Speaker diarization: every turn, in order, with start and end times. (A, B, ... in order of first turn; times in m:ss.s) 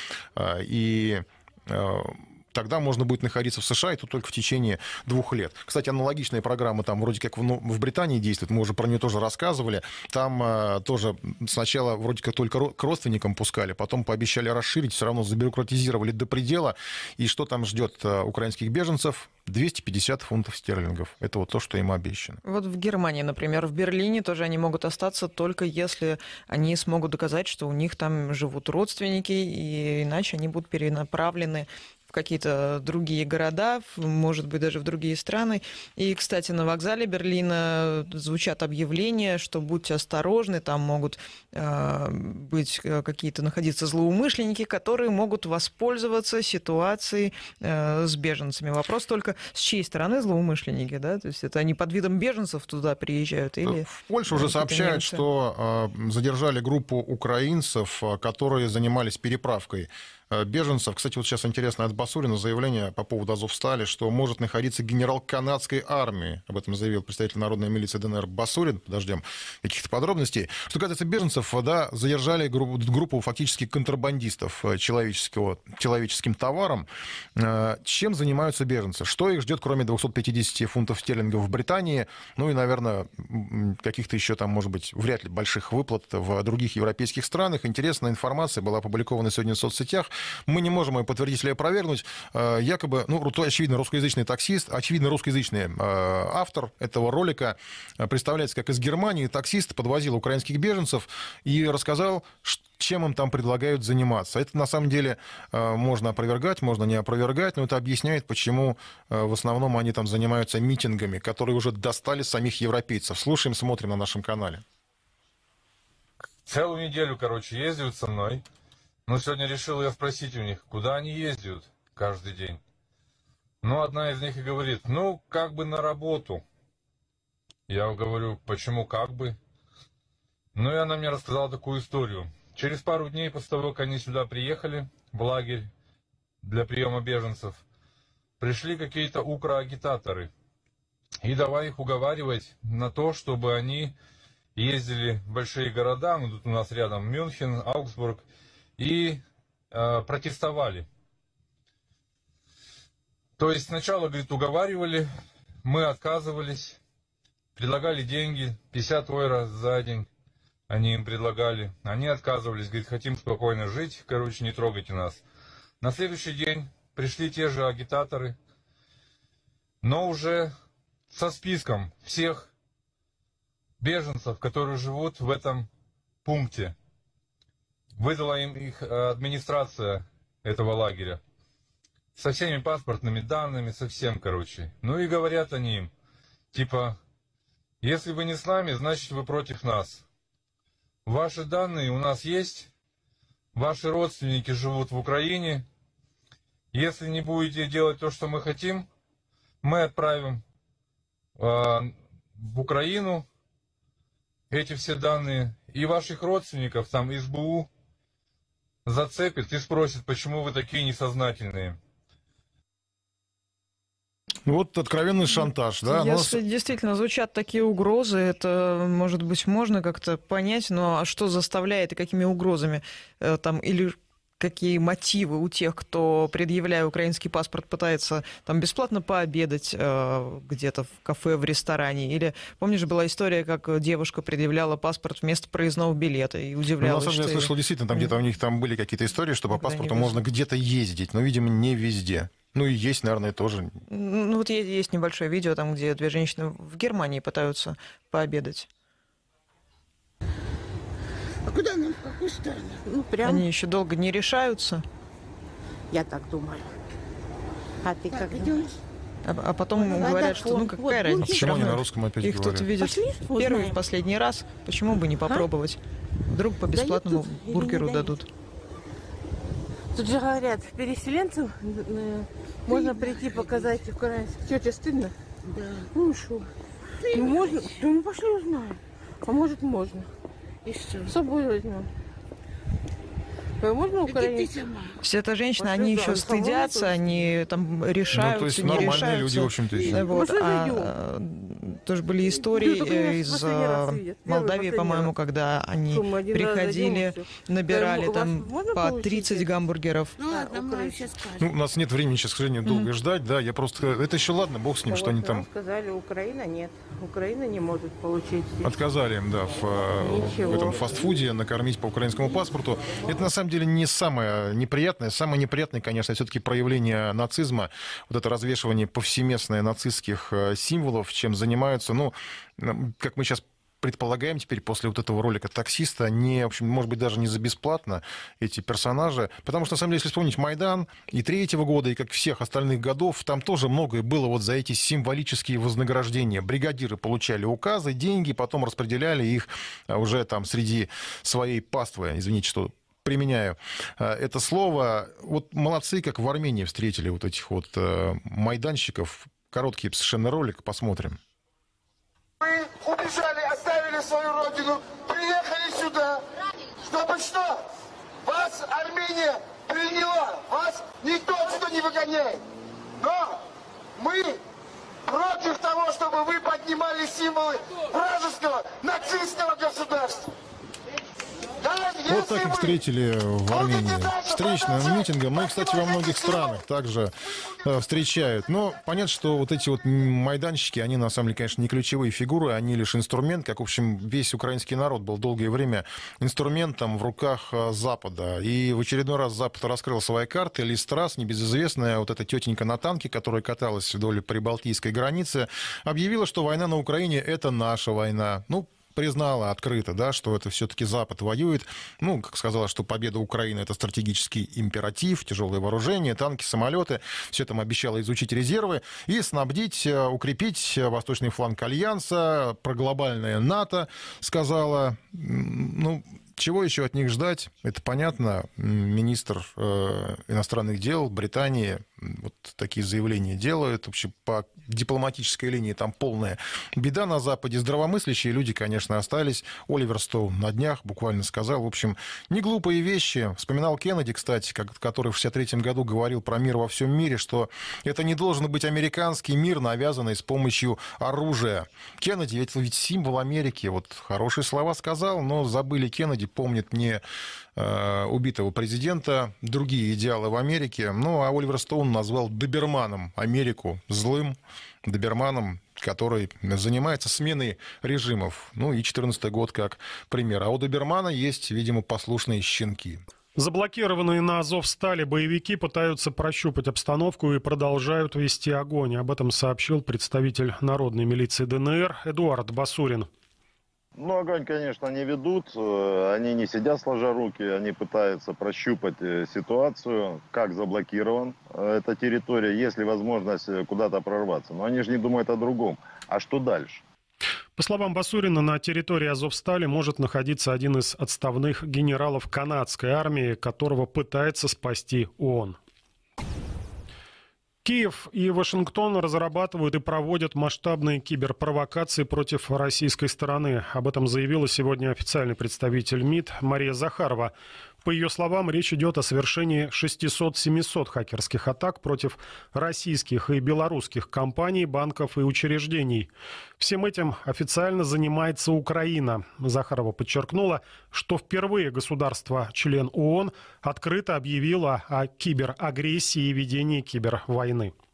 0:00.3-0:22.4 A
0:22.4-0:55.2 B
0:53.6-1:54.6 A
1:56.4-1:58.4 C
1:59.1-2:02.6 C
2:03.6-2:06.4 C
2:07.7-2:09.4 C
2:10.5-2:15.7 C
2:16.4-2:17.6 C
2:18.4-2:20.3 C
2:21.2-2:23.9 C
2:24.6-2:28.2 C
2:28.8-2:30.9 C
2:33.4-2:35.1 C
2:35.6-2:36.8 C
2:37.6-2:40.1 C
2:40.7-2:45.2 C
2:45.8-2:48.4 C
2:49.8-2:50.5 C
2:51.1-2:52.5 C
2:53.8-2:55.7 C
2:56.2-2:56.7 C
2:58.0-3:01.2 C
3:02.1-3:05.9 C
3:06.5-3:07.0 C
3:07.8-3:10.0 C
3:11.0-3:12.7 C
3:13.5-3:15.6 C
3:16.7-3:18.8 C
3:19.6-3:20.4 C
3:21.4-3:23.2 C
3:24.5-3:27.7 C
3:28.8-3:31.8 C
3:34.4-3:36.4 A
3:35.3-3:58.1 B
3:56.8-4:03.8 A
3:59.5-4:00.2 B
4:03.9-4:08.7 B
4:11.5-4:13.5 D
4:13.2-4:14.8 B
4:15.9-4:16.7 D
4:17.8-4:18.8 D
4:19.2-4:28.3 B
4:19.7-4:21.7 D
4:21.3-4:22.7 A
4:22.8-4:23.8 D
4:25.2-4:25.5 D
4:26.7-4:28.2 D
4:29.9-4:36.5 D
4:37.0-4:40.1 D
4:40.6-4:41.9 D
4:43.6-4:44.9 D
4:45.0-5:01.0 B
4:45.6-4:47.4 D
4:48.1-4:50.1 A
4:49.7-4:50.9 D
4:52.2-4:55.1 D
4:55.9-4:59.6 D
5:00.2-5:01.5 D
5:01.4-5:05.4 A
5:04.9-5:08.8 D
5:08.6-5:51.2 A
5:09.9-5:11.0 D
5:52.4-5:56.2 E
5:56.8-5:57.6 E
5:58.2-6:02.4 E
6:03.0-6:03.4 E
6:04.0-6:04.4 E
6:05.0-6:10.3 E
6:11.6-6:12.7 E
6:12.0-7:27.0 A
6:13.7-6:15.0 E
6:15.5-6:16.3 E
7:27.6-7:43.0 A
7:43.4-7:53.1 F
7:53.9-8:06.8 G
8:07.6-8:15.6 F
8:17.6-8:27.3 F
8:27.8-8:47.7 F